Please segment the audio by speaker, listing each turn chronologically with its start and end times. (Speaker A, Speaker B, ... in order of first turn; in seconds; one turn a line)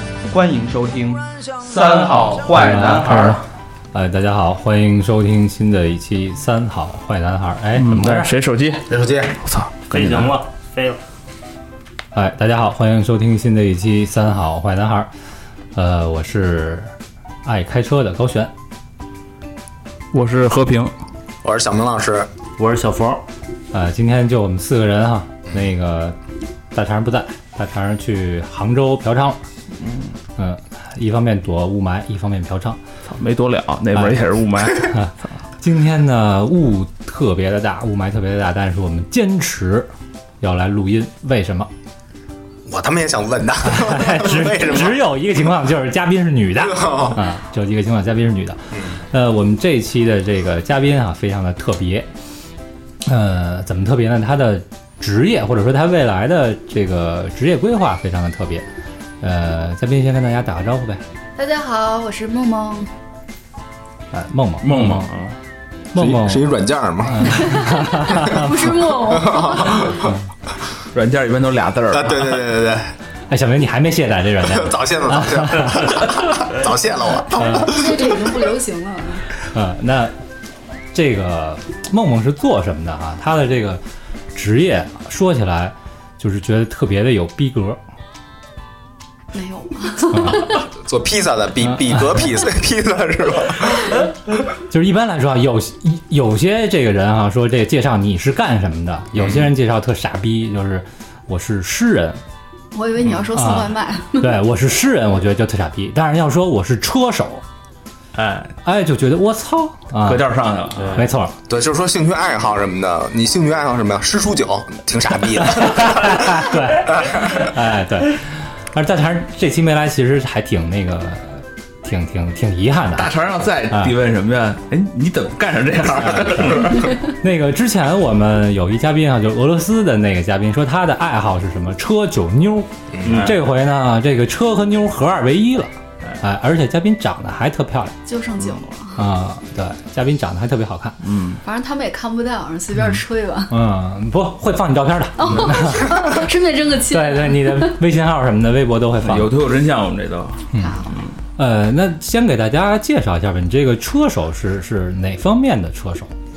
Speaker A: 0.3-3.4
Speaker B: 1.7-3.4
Speaker C: 2.5-8.3
Speaker B: 7.8-8.9
Speaker D: 8.9-9.4
Speaker B: 9.4-10.3
Speaker E: 9.9-11.0
Speaker C: 12.1-15.1
Speaker C: 15.7-16.9
Speaker C: 17.4-18.5
Speaker B: 20.1-20.9
Speaker D: 21.4-22.3
Speaker E: 22.6-23.2
Speaker C: 23.7-26.2
Speaker C: 26.7-29.4
Speaker B: 29.8-30.1
Speaker C: 30.4-32.8
Speaker B: 33.1-35.0
Speaker C: 33.9-39.9
Speaker C: 40.4-41.7
Speaker D: 42.7-45.0
Speaker C: 43.6-52.1
Speaker D: 46.6-47.2
Speaker C: 53.0-58.6
Speaker C: 59.2-61.0
Speaker F: 61.4-62.9
Speaker C: 64.1-65.1
Speaker B: 64.6-65.3
Speaker C: 65.9-68.7
Speaker D: 65.9-68.3
Speaker F: 68.1-70.1
Speaker D: 69.1-70.1
Speaker B: 70.9-72.4
Speaker D: 71.9-72.9
Speaker C: 73.3-76.4
Speaker D: 74.4-78.3
Speaker C: 77.4-77.7
Speaker F: 77.4-79.2
Speaker C: 79.5-80.1
Speaker C: 80.9-83.8
Speaker C: 84.3-87.8
Speaker F: 89.3-90.6
Speaker C: 90.1-90.4
Speaker D: 90.5-94.0
Speaker C: 91.7-92.2
Speaker C: 94.5-102.2
Speaker F: 102.7-104.3
Speaker C: 103.3-107.4
Speaker B: 108.1-108.5
Speaker C: 108.6-110.2
Speaker B: 110.0-111.1
Speaker E: 110.8-111.0
Speaker C: 110.9-111.3
Speaker D: 111.5-117.4
Speaker C: 115.4-123.1
Speaker B: 123.0-127.0
Speaker C: 126.4-137.9
Speaker D: 132.9-133.2
Speaker B: 133.0-133.4
Speaker F: 138.1-139.0
Speaker C: 139.0-141.0
Speaker B: 141.0-141.4
Speaker F: 141.4-143.5
Speaker C: 142.8-146.3
Speaker F: 145.2-147.8
Speaker C: 146.9-149.3
Speaker B: 149.0-151.1
Speaker C: 150.5-150.8
Speaker F: 150.6-151.0
Speaker C: 151.4-156.1